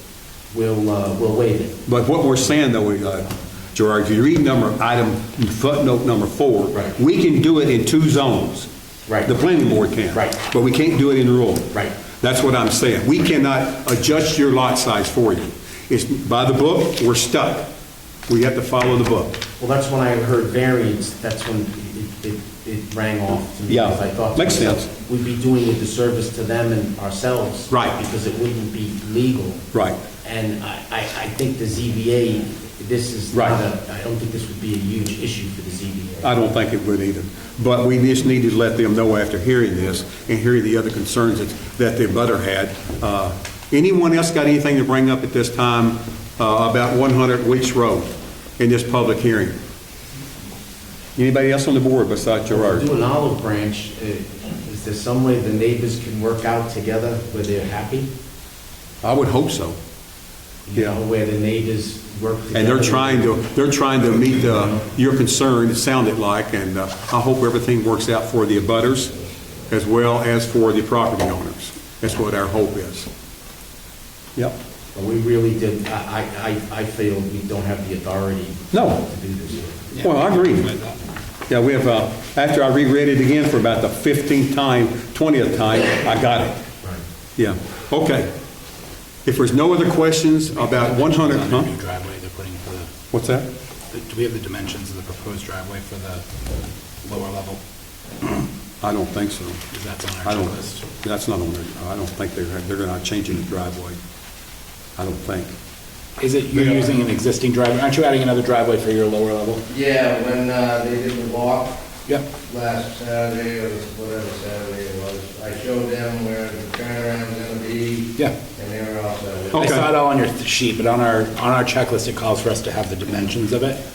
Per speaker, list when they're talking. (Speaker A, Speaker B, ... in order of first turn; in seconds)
Speaker A: 0.5-1.7, 9.1-9.3, 10.1-10.4, 19.6-29.6, 30.2-36.2, 52.5-58.1, 60.6-63.3, 74.9-79.9
Speaker B: 1.9-8.7, 9.2-17.7, 18.3-19.4, 23.7-24.9, 27.7-28.0, 29.7-30.0, 33.3-33.6, 36.2-49.6, 51.1-52.9, 59.0-59.8, 62.5-69.1, 69.7-73.1, 78.7-79.0, 80.0-80.7, 81.5-86.6, 87.4-88.3, 89.2-91.7, 93.1-93.5, 98.8-99.6, 100.2-104.0, 105.0-105.5, 119.5-119.9
Speaker C: 79.9-81.0, 90.5-92.9, 93.9-96.2, 97.0-97.6, 99.7-100.8, 106.2-109.6, 119.5-123.8
Speaker D: 109.7-111.8, 112.4-119.7